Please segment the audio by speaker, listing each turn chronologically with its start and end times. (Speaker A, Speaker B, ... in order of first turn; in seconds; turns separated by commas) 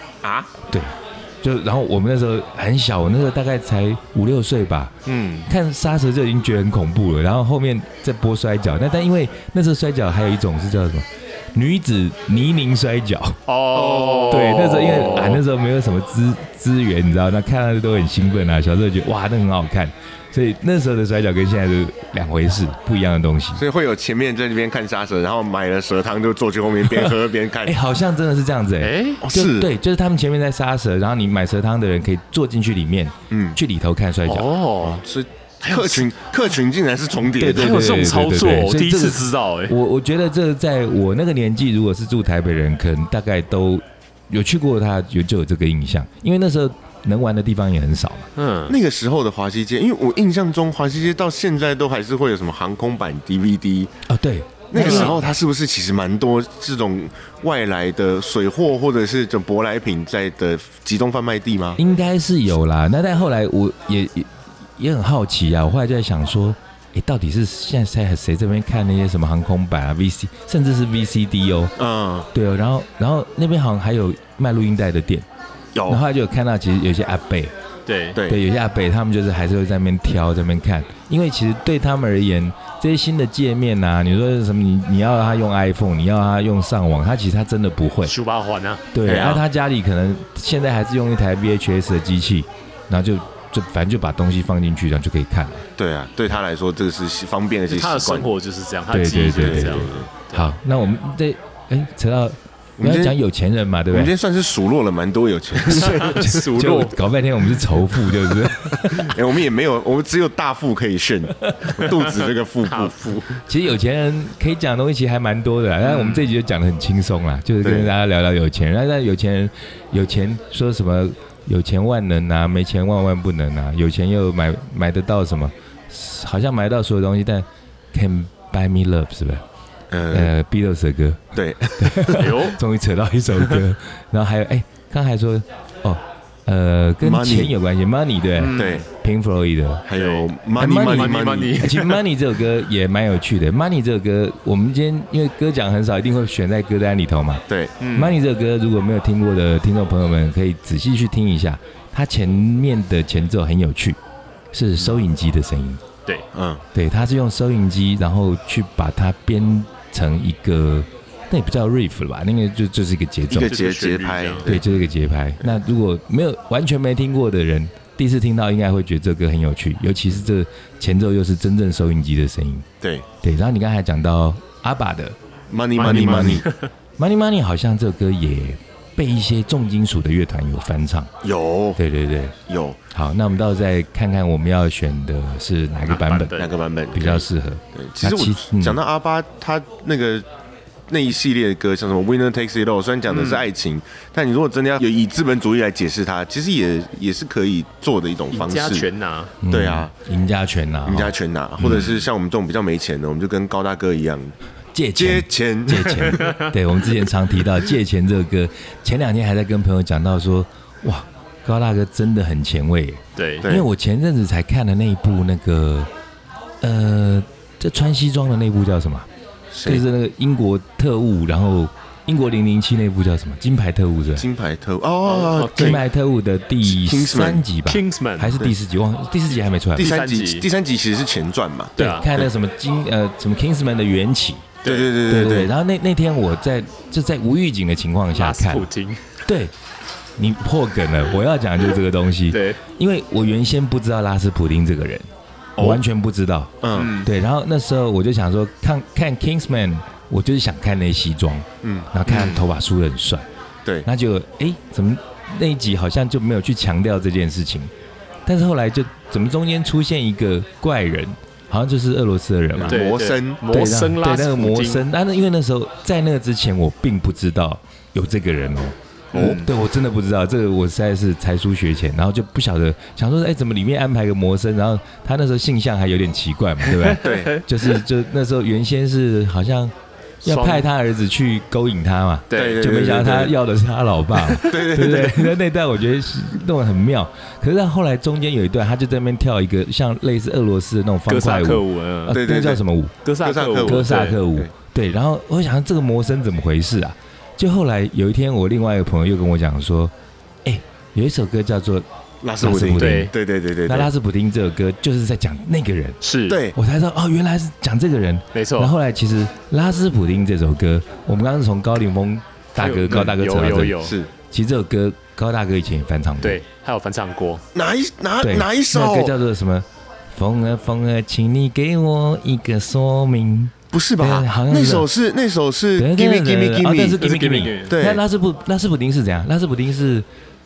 Speaker A: 0.2-0.5, Speaker B: 0.7-4.9, Speaker C: 5.0-5.5, Speaker B: 5.5-13.4, Speaker C: 13.5-15.4, Speaker A: 13.7-14.5, Speaker B: 14.3-23.6, Speaker A: 23.6-27.8, Speaker B: 26.9-34.5, Speaker C: 28.8-29.2, Speaker A: 29.2-29.7, Speaker A: 33.3-33.6, Speaker C: 34.2-35.0, Speaker A: 34.8-37.9, Speaker C: 35.6-36.0, Speaker B: 37.3-48.3, Speaker C: 37.5-39.7, Speaker C: 48.4-48.8, Speaker A: 48.7-53.9, Speaker B: 54.1-55.2, Speaker A: 54.7-61.8, Speaker C: 54.8-55.1, Speaker B: 61.8-71.7, Speaker A: 71.8-72.3, Speaker B: 72.3-75.2, Speaker A: 75.7-76.0, Speaker B: 75.9-77.5, Speaker C: 77.8-78.2, Speaker A: 78.1-78.4, Speaker B: 78.2-88.1, Speaker C: 88.0-88.8, Speaker B: 88.9-95.6, Speaker A: 89.0-89.4, Speaker A: 95.8-98.3, Speaker C: 97.7-100.5, Speaker B: 98.9-104.1, Speaker A: 99.4-100.1, Speaker A: 102.8-103.2, Speaker A: 103.9-106.4, Speaker C: 105.6-107.0, Speaker B: 105.7-109.2, Speaker A: 108.9-113.0, Speaker B: 111.4-111.9, Speaker C: 111.9-113.4, Speaker B: 113.5-129.4, Speaker C: 115.8-116.3, Speaker A: 117.6-117.9, Speaker A: 129.9-130.3, Speaker B: 130.1-139.8, Speaker A: 131.3-132.3, Speaker C: 132.1-132.6, Speaker A: 137.0-137.5, Speaker C: 138.4-138.8, Speaker A: 138.5-138.8, Speaker A: 139.9-141.7, Speaker C: 139.9-142.0, Speaker B: 140.6-154.0, Speaker A: 147.5-147.7, Speaker C: 147.8-148.2, Speaker B: 154.5-155.8, Speaker A: 156.3-156.6, Speaker B: 156.7-163.5, Speaker A: 163.3-164.8, Speaker C: 163.3-164.6, Speaker B: 164.4-172.7, Speaker B: 173.2-175.2, Speaker A: 175.5-176.4, Speaker C: 175.8-176.7, Speaker B: 175.8-176.4, Speaker B: 177.0-181.1, Speaker A: 181.2-181.8, Speaker B: 181.8-182.3, Speaker A: 182.5-182.8, Speaker B: 182.9-186.4, Speaker C: 185.9-186.5, Speaker A: 186.3-190.2, Speaker B: 186.9-188.8, Speaker A: 190.9-198.9, Speaker C: 193.1-193.4, Speaker C: 198.3-199.3, Speaker B: 199.4-201.9, Speaker A: 199.5-199.9, Speaker A: 200.8-204.3, Speaker B: 204.7-215.9, Speaker A: 204.9-206.2, Speaker C: 206.1-206.5, Speaker C: 213.2-213.5, Speaker B: 216.6-219.1, Speaker A: 219.5-219.8, Speaker B: 219.6-224.2, Speaker A: 224.1-225.8, Speaker C: 225.1-225.8, Speaker B: 225.5-229.9, Speaker A: 226.6-227.4, Speaker C: 227.7-228.4, Speaker A: 229.8-232.3, Speaker C: 229.8-230.5, Speaker C: 231.8-232.1, Speaker B: 231.8-234.5, Speaker C: 234.6-234.9, Speaker A: 234.6-235.5, Speaker B: 235.1-238.7, Speaker C: 238.1-239.0, Speaker B: 239.2-239.5, Speaker B: 240.2-245.1, Speaker C: 242.3-242.6, Speaker A: 245.6-245.8, Speaker B: 245.6-253.2, Speaker A: 246.6-246.9, Speaker C: 246.7-247.1, Speaker A: 251.6-251.9, Speaker C: 252.1-252.4, Speaker B: 253.8-257.7, Speaker B: 258.2-262.8, Speaker A: 262.6-263.4, Speaker C: 262.6-264.8, Speaker B: 263.5-279.7, Speaker C: 269.1-269.5, Speaker A: 269.1-269.4, Speaker C: 276.7-277.4, Speaker A: 277.0-277.4, Speaker C: 280.2-280.7, Speaker B: 280.2-292.9, Speaker C: 282.3-282.6, Speaker A: 282.3-283.4, Speaker A: 284.4-285.4, Speaker C: 291.1-292.2, Speaker A: 292.1-292.6, Speaker C: 293.0-294.2, Speaker A: 293.2-294.5, Speaker B: 293.6-299.9, Speaker B: 300.4-301.9, Speaker A: 302.2-303.9, Speaker B: 302.4-303.1, Speaker C: 302.6-303.1, Speaker B: 303.6-306.0, Speaker C: 306.0-306.4, Speaker A: 306.3-306.6, Speaker B: 306.5-316.4, Speaker C: 308.3-308.7, Speaker C: 312.6-314.0, Speaker A: 313.8-314.1, Speaker C: 316.2-317.4, Speaker A: 317.5-319.1, Speaker B: 318.2-324.9, Speaker A: 323.7-327.1, Speaker B: 325.8-330.1, Speaker C: 327.0-327.8, Speaker A: 327.7-328.0